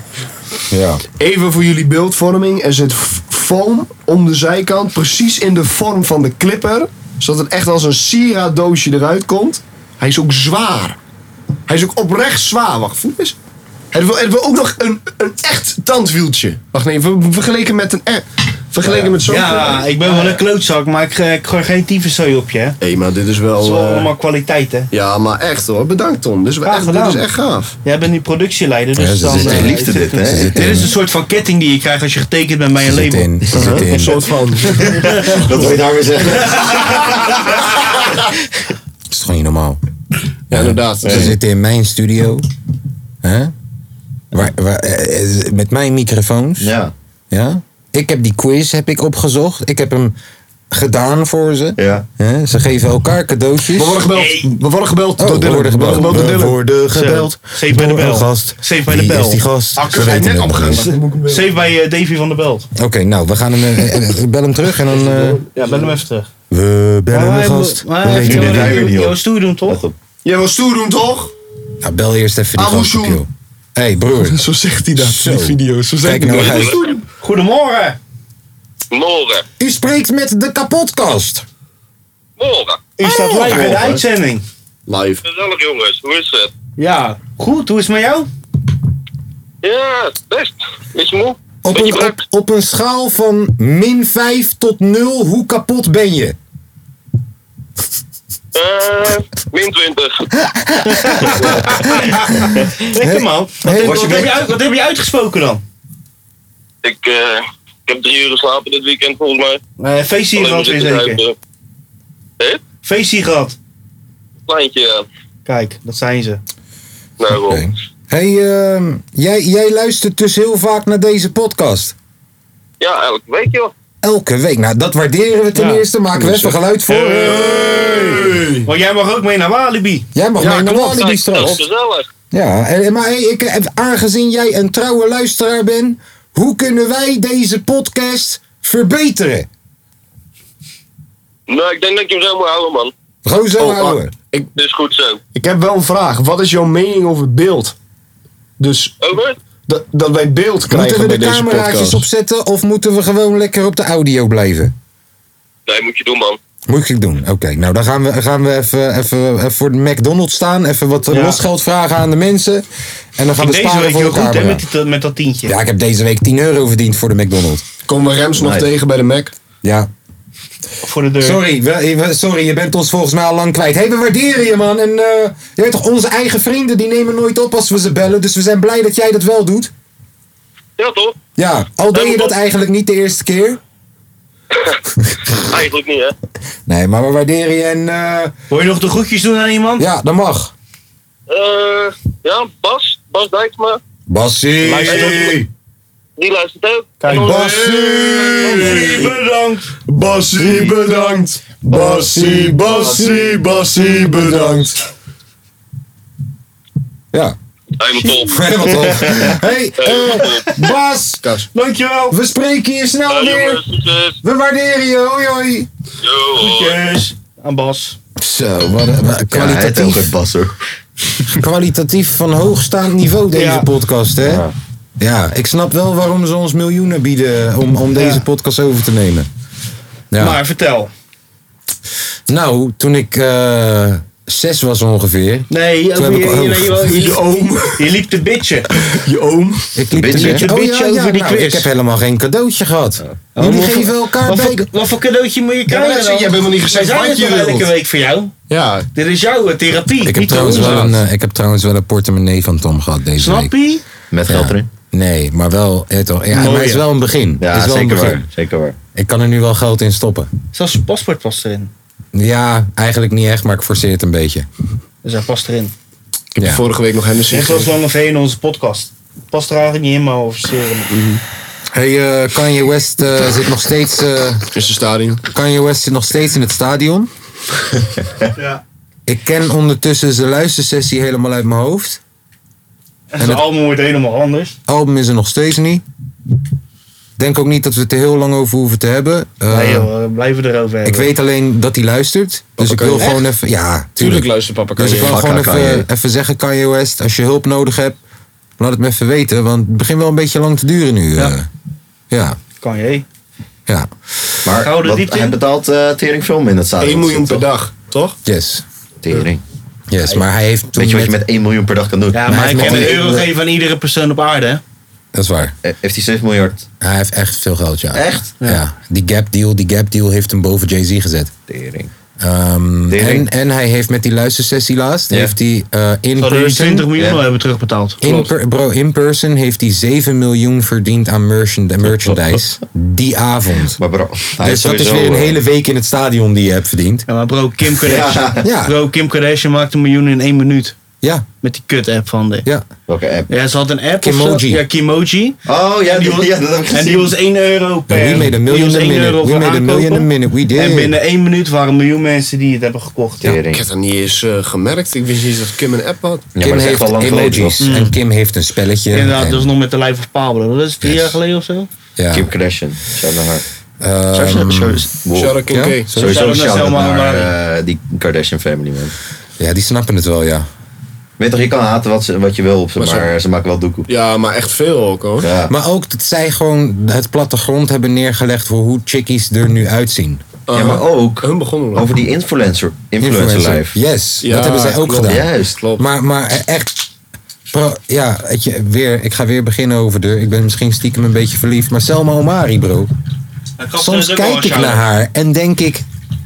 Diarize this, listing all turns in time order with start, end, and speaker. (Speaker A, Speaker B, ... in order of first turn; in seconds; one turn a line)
Speaker A: 0.7-1.0
Speaker B: 1.2-11.0
Speaker B: 11.7-13.3
Speaker B: 13.9-20.4
Speaker C: 18.9-22.8
Speaker B: 22.8-24.1
Speaker C: 23.6-24.9
Speaker B: 24.9-27.8
Speaker C: 26.6-27.3
Speaker C: 27.8-33.3
Speaker A: 28.9-30.9
Speaker D: 29.2-30.6
Speaker A: 32.8-34.2
Speaker D: 33.5-33.8
Speaker B: 33.5-35.1
Speaker D: 34.8-38.2
Speaker C: 34.9-35.4
Speaker A: 39.1-39.8
Speaker B: 40.5-41.3
Speaker A: 40.5-42.4
Speaker D: 41.0-41.3
Speaker A: 43.2-43.5
Speaker A: 44.3-46.7
Speaker D: 46.6-46.9
Speaker A: 47.3-50.1
Speaker A: 50.7-54.1
Speaker D: 51.8-52.0
Speaker B: 53.7-56.6
Speaker C: 54.1-54.5
Speaker A: 55.2-60.9
Speaker C: 55.9-56.2
Speaker C: 56.9-59.4
Speaker B: 59.8-61.6
Speaker C: 60.8-62.7
Speaker A: 62.8-65.4
Speaker B: 64.8-66.0
Speaker C: 65.6-66.3
Speaker A: 66.5-68.9
Speaker C: 67.1-69.8
Speaker D: 68.0-69.9
Speaker B: 70.2-71.3
Speaker A: 71.8-74.4
Speaker B: 72.5-73.2
Speaker B: 74.2-76.8
Speaker A: 75.0-76.8
Speaker E: 76.3-76.9
Speaker C: 77.2-78.0
Speaker E: 78.9-79.4
Speaker A: 79.6-81.4
Speaker E: 82.4-82.8
Speaker C: 83.0-84.4
Speaker B: 83.0-84.0
Speaker B: 84.9-85.2
Speaker E: 85.2-86.5
Speaker C: 86.8-88.3
Speaker E: 89.6-92.2
Speaker A: 91.6-96.3
Speaker E: 98.5-100.1
Speaker A: 100.5-101.8
Speaker C: 100.8-105.6
Speaker A: 103.0-104.3
Speaker D: 103.7-104.4
Speaker E: 106.8-109.6
Speaker C: 109.8-111.2
Speaker E: 110.3-111.3
Speaker C: 112.8-113.5
Speaker E: 114.5-115.0
Speaker C: 115.5-116.4
Speaker E: 117.2-117.6
Speaker A: 117.3-121.9
Speaker E: 122.8-123.7
Speaker A: 124.0-128.2
Speaker C: 125.5-125.8
Speaker B: 126.1-126.6
Speaker C: 126.9-130.1
Speaker B: 127.2-128.7
Speaker A: 130.1-131.6
Speaker B: 130.4-130.8
Speaker E: 130.7-132.1
Speaker A: 132.3-139.5
Speaker E: 141.5-142.9
Speaker A: 143.2-144.1
Speaker B: 143.6-144.5
Speaker E: 144.6-145.2
Speaker B: 145.3-147.7
Speaker B: 148.6-149.0
Speaker E: 149.0-149.3
Speaker B: 149.7-152.0
Speaker A: 150.7-154.7
Speaker E: 155.7-156.4
Speaker A: 156.7-162.7
Speaker C: 161.1-161.4
Speaker A: 163.2-164.6
Speaker C: 163.4-165.5
Speaker A: 165.4-167.6
Speaker B: 167.8-169.3
Speaker D: 168.4-168.7
Speaker A: 169.6-169.9
Speaker C: 170.8-171.4
Speaker A: 171.2-179.7
Speaker E: 180.8-181.2
Speaker A: 181.4-183.6
Speaker E: 181.9-182.3
Speaker E: 184.5-184.8
Speaker E: 185.3-186.1
Speaker A: 186.7-188.3
Speaker C: 188.5-189.8
Speaker A: 189.8-190.5
Speaker E: 191.3-193.8
Speaker A: 194.1-195.5
Speaker C: 194.6-195.4
Speaker E: 194.9-195.1
Speaker E: 196.2-198.7
Speaker C: 197.0-197.5
Speaker A: 197.2-198.9
Speaker B: 197.2-199.0
Speaker C: 198.4-199.7
Speaker B: 199.9-204.8
Speaker A: 200.4-204.8
Speaker C: 202.7-203.1
Speaker E: 207.8-208.7
Speaker A: 207.9-211.2
Speaker E: 209.8-210.5
Speaker C: 210.2-210.5
Speaker B: 211.2-211.5
Speaker C: 211.5-212.2
Speaker A: 212.1-213.6
Speaker E: 213.1-214.2
Speaker A: 214.2-215.7
Speaker E: 216.0-216.8
Speaker C: 216.3-218.0
Speaker A: 218.2-220.1
Speaker D: 219.3-220.6
Speaker A: 221.2-224.4
Speaker C: 223.3-223.7
Speaker D: 224.2-224.5
Speaker A: 225.0-229.3
Speaker C: 227.9-228.2
Speaker A: 230.1-230.4
Speaker C: 230.2-230.9
Speaker A: 232.3-237.0
Speaker C: 235.5-237.2
Speaker B: 236.9-237.9
Speaker C: 237.8-238.7
Speaker B: 238.8-239.7
Speaker A: 239.8-244.7
Speaker D: 239.9-240.5
Speaker C: 240.1-241.7
Speaker C: 243.3-248.3
Speaker B: 245.7-247.7
Speaker B: 248.5-248.9
Speaker C: 248.9-250.8
Speaker A: 250.0-253.5
Speaker B: 250.4-251.0
Speaker C: 253.2-253.8
Speaker D: 254.1-254.7
Speaker A: 254.3-258.2
Speaker C: 256.3-256.9
Speaker D: 257.4-258.8
Speaker A: 258.9-260.3
Speaker C: 260.5-261.7
Speaker A: 262.1-264.5
Speaker C: 265.0-265.7
Speaker B: 266.3-267.7
Speaker A: 266.4-266.6
Speaker C: 267.3-270.9
Speaker B: 270.9-271.2
Speaker A: 271.7-274.4
Speaker B: 274.5-275.2
Speaker A: 275.3-277.1
Speaker A: 279.1-282.0
Speaker C: 283.1-284.6
Speaker A: 283.2-283.5
Speaker A: 284.7-285.8
Speaker A: 287.2-289.9
Speaker C: 289.5-291.1
Speaker A: 290.8-298.0
Speaker B: 292.6-293.2
Speaker B: 294.0-295.2
Speaker D: 294.8-295.9
Speaker A: 298.6-301.5
Speaker A: 302.1-302.4
Speaker C: 302.6-303.1
Speaker A: 303.7-304.4
Speaker D: 304.4-307.4
Speaker C: 304.6-305.4
Speaker B: 306.8-307.8
Speaker A: 308.2-308.6
Speaker D: 309.0-309.4
Speaker A: 309.9-311.2
Speaker D: 310.7-313.0
Speaker C: 312.1-314.6
Speaker A: 312.3-313.2
Speaker A: 315.1-315.5
Speaker D: 315.6-316.7
Speaker A: 316.8-321.3
Speaker D: 317.9-318.3
Speaker D: 321.5-321.9
Speaker A: 322.2-326.9
Speaker D: 322.9-323.2
Speaker C: 326.2-328.0
Speaker D: 326.9-327.2
Speaker A: 328.0-333.8
Speaker B: 328.0-328.3
Speaker D: 333.8-335.4
Speaker A: 334.4-337.1
Speaker C: 337.1-340.7
Speaker D: 337.8-338.5
Speaker A: 338.4-338.8
Speaker C: 341.4-342.5
Speaker D: 342.9-343.3
Speaker C: 343.3-353.4
Speaker A: 344.0-344.6
Speaker D: 345.4-347.1
Speaker A: 347.9-351.0
Speaker D: 353.2-353.6
Speaker B: 353.5-356.3
Speaker D: 356.3-357.6
Speaker A: 356.4-359.5
Speaker C: 357.6-357.9
Speaker C: 358.9-361.7
Speaker A: 360.8-361.2
Speaker A: 362.0-362.3
Speaker D: 362.1-363.4
Speaker A: 363.8-364.9
Speaker D: 364.1-368.9
Speaker B: 365.1-365.9
Speaker A: 365.5-366.4
Speaker C: 366.0-367.3
Speaker A: 369.4-370.5
Speaker D: 371.2-373.9
Speaker B: 372.8-373.1
Speaker B: 373.9-375.3
Speaker D: 375.2-375.5
Speaker A: 375.5-380.2
Speaker B: 380.5-381.9
Speaker D: 380.5-383.8
Speaker A: 383.0-386.9
Speaker B: 384.2-385.8
Speaker D: 385.1-385.6
Speaker A: 387.5-392.9
Speaker C: 393.6-394.8
Speaker A: 393.8-395.8